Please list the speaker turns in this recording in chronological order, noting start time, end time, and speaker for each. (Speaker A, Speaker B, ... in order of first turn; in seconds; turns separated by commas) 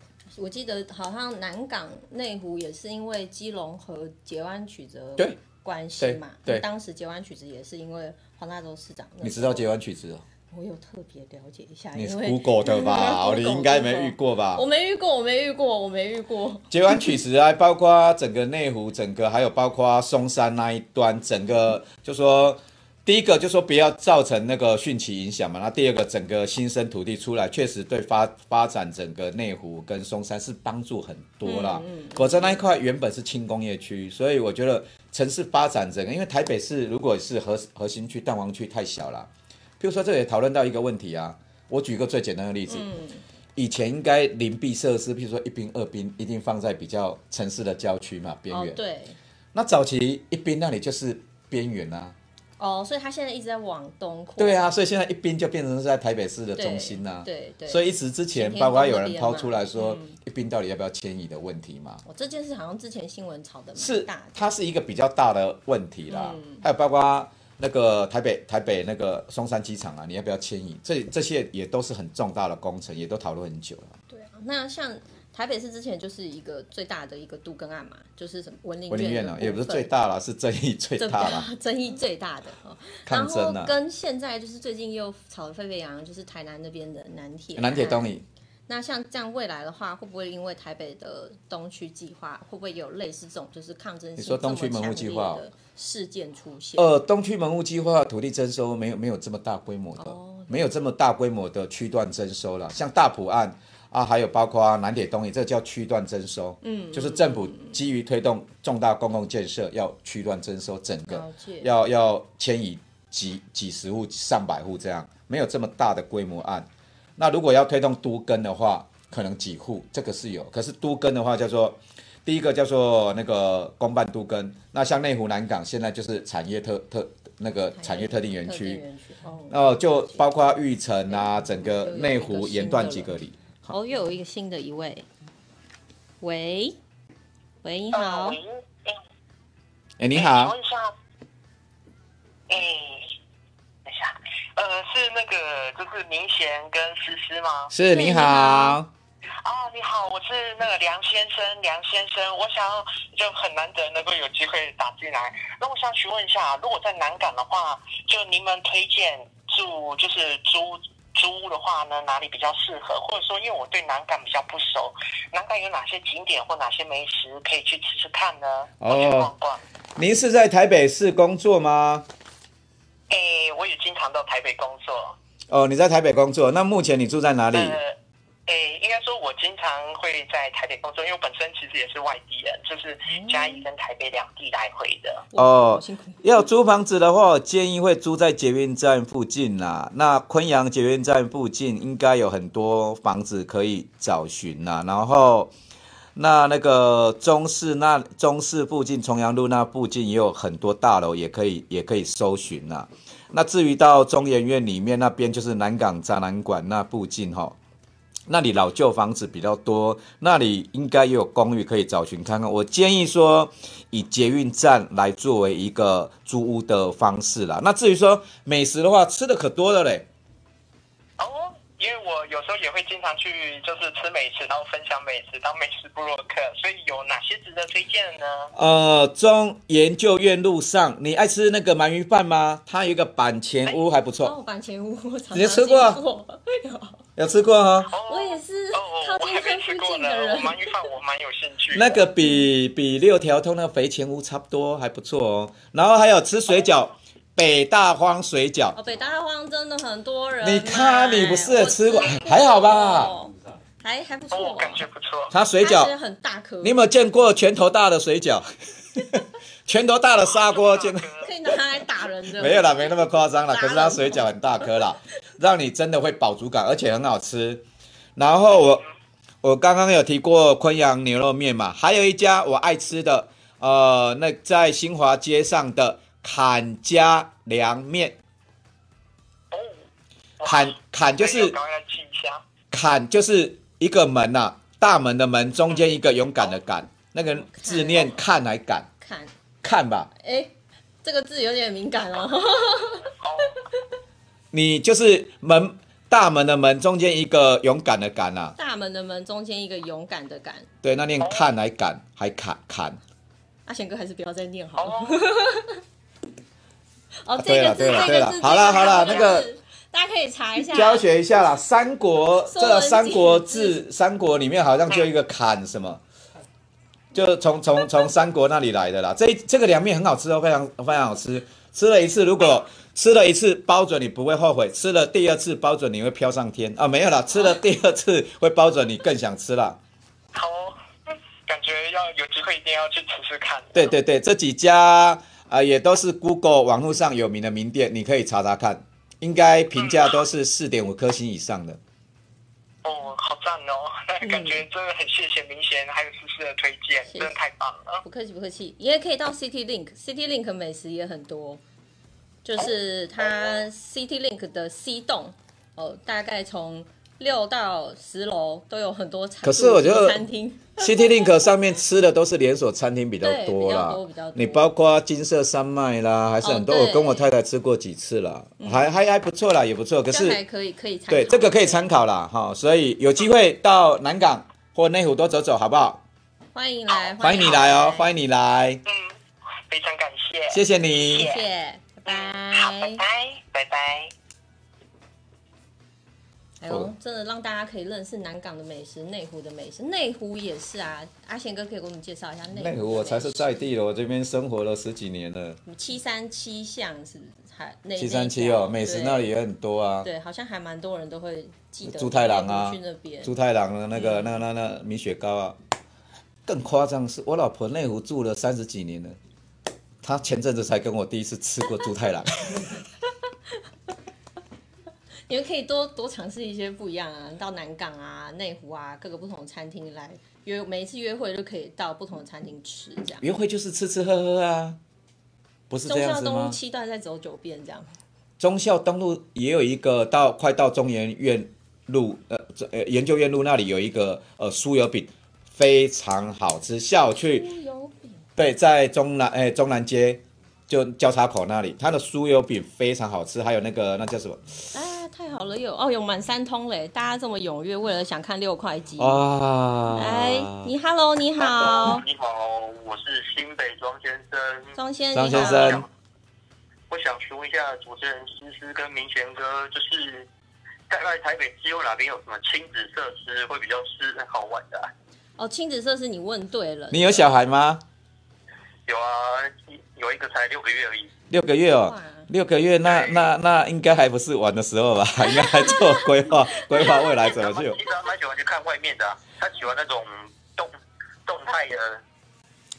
Speaker A: 0.3-9.7, Speaker B: 6.0-6.7, Speaker B: 9.2-10.2, Speaker A: 10.5-17.1, Speaker B: 11.9-14.6, Speaker B: 16.7-42.9, Speaker A: 31.4-32.6, Speaker A: 42.7-43.2, Speaker B: 43.5-48.8, Speaker A: 48.5-49.2, Speaker B: 49.5-52.1, Speaker A: 52.6-54.6, Speaker B: 54.4-62.0, Speaker A: 56.5-60.2, Speaker A: 62.0-64.3, Speaker B: 63.8-74.0, Speaker A: 66.1-66.6, Speaker A: 74.1-79.9, Speaker B: 78.9-81.5, Speaker A: 81.0-88.1, Speaker B: 83.0-83.7, Speaker B: 87.5-88.2, Speaker A: 88.7-96.9, Speaker B: 94.2-95.4, Speaker B: 96.8-128.8, Speaker A: 100.0-100.6, Speaker A: 106.6-107.8, Speaker A: 111.1-111.7, Speaker A: 127.7-130.2, Speaker B: 129.5-133.7, Speaker A: 131.1-133.1, Speaker A: 133.7-135.1, Speaker A: 136.2-136.8, Speaker A: 137.6-138.4, Speaker C: 137.9-139.0, Speaker B: 140.0-140.5, Speaker C: 140.1-140.9, Speaker C: 142.5-143.1, Speaker C: 143.9-147.7, Speaker B: 147.7-148.9, Speaker A: 147.9-148.8, Speaker C: 149.4-169.6, Speaker B: 168.8-169.3, Speaker B: 170.0-172.1, Speaker C: 173.1-175.2, Speaker B: 175.5-177.8, Speaker C: 177.5-177.9, Speaker C: 178.5-185.2, Speaker A: 183.1-183.6, Speaker A: 185.3-186.3, Speaker B: 185.3-195.5, Speaker B: 196.1-207.6, Speaker B: 208.3-220.1, Speaker C: 221.2-228.5, Speaker B: 228.5-234.3, Speaker A: 234.2-237.0, Speaker B: 235.3-236.0, Speaker B: 237.2-237.9, Speaker C: 237.9-242.0, Speaker A: 238.1-240.8, Speaker B: 241.7-248.8, Speaker A: 248.8-254.8, Speaker B: 250.4-253.2, Speaker C: 254.3-255.3, Speaker B: 255.3-255.9, Speaker A: 255.6-256.9, Speaker B: 256.6-261.1, Speaker C: 260.2-261.2, Speaker A: 261.2-264.6, Speaker B: 262.4-267.6, Speaker B: 268.1-268.8, Speaker B: 269.4-278.2, Speaker C: 280.4-282.4, Speaker B: 280.4-281.6, Speaker B: 282.7-288.9, Speaker A: 287.2-288.2, Speaker A: 289.0-289.3, Speaker B: 289.6-290.1, Speaker A: 290.2-290.5, Speaker A: 291.0-293.1, Speaker B: 294.5-298.6, Speaker A: 298.6-300.7, Speaker B: 300.8-303.0, Speaker C: 301.2-301.4, Speaker A: 303.6-305.8, Speaker C: 304.8-305.2, Speaker A: 307.2-311.0, Speaker B: 307.4-309.5, Speaker B: 310.7-316.0, Speaker A: 312.5-313.8, Speaker B: 317.1-329.8, Speaker C: 330.3-333.9, Speaker B: 333.7-341.8, Speaker C: 339.8-340.1, Speaker C: 342.8-348.0, Speaker A: 344.2-344.6, Speaker A: 347.1-347.3, Speaker A: 348.0-351.6, Speaker A: 352.4-361.3, Speaker B: 359.4-360.2, Speaker B: 360.8-370.4, Speaker A: 363.2-364.7, Speaker A: 366.4-367.3, Speaker A: 368.6-368.9, Speaker A: 370.1-371.9, Speaker B: 371.1-376.0, Speaker A: 376.5-378.1, Speaker B: 377.2-378.8, Speaker C: 378.8-379.1, Speaker C: 379.7-381.4, Speaker B: 380.5-381.3, Speaker A: 381.2-383.0, Speaker C: 382.1-384.1, Speaker A: 386.6-393.7, Speaker B: 392.5-395.6, Speaker A: 395.6-399.3, Speaker B: 398.0-400.1, Speaker A: 400.0-403.3, Speaker B: 401.8-405.6, Speaker A: 403.9-404.4, Speaker B: 406.4-409.2, Speaker B: 410.0-412.7, Speaker A: 415.3-423.3, Speaker B: 423.2-424.8, Speaker B: 425.7-426.6, Speaker A: 425.9-427.9, Speaker B: 428.4-437.4, Speaker A: 437.2-438.2, Speaker B: 438.4-444.4, Speaker A: 444.7-449.2, Speaker B: 449.0-450.7, Speaker A: 449.9-452.0, Speaker D: 451.4-454.7, Speaker A: 454.8-455.9, Speaker B: 455.1-455.9, Speaker D: 455.3-455.9, Speaker D: 456.9-460.3, Speaker D: 460.9-464.9, Speaker A: 465.4-467.3, Speaker B: 466.9-467.8, Speaker D: 468.9-471.1, Speaker B: 471.3-477.8, Speaker A: 471.8-472.3, Speaker A: 475.3-476.1, Speaker D: 477.1-480.7, Speaker D: 481.2-482.0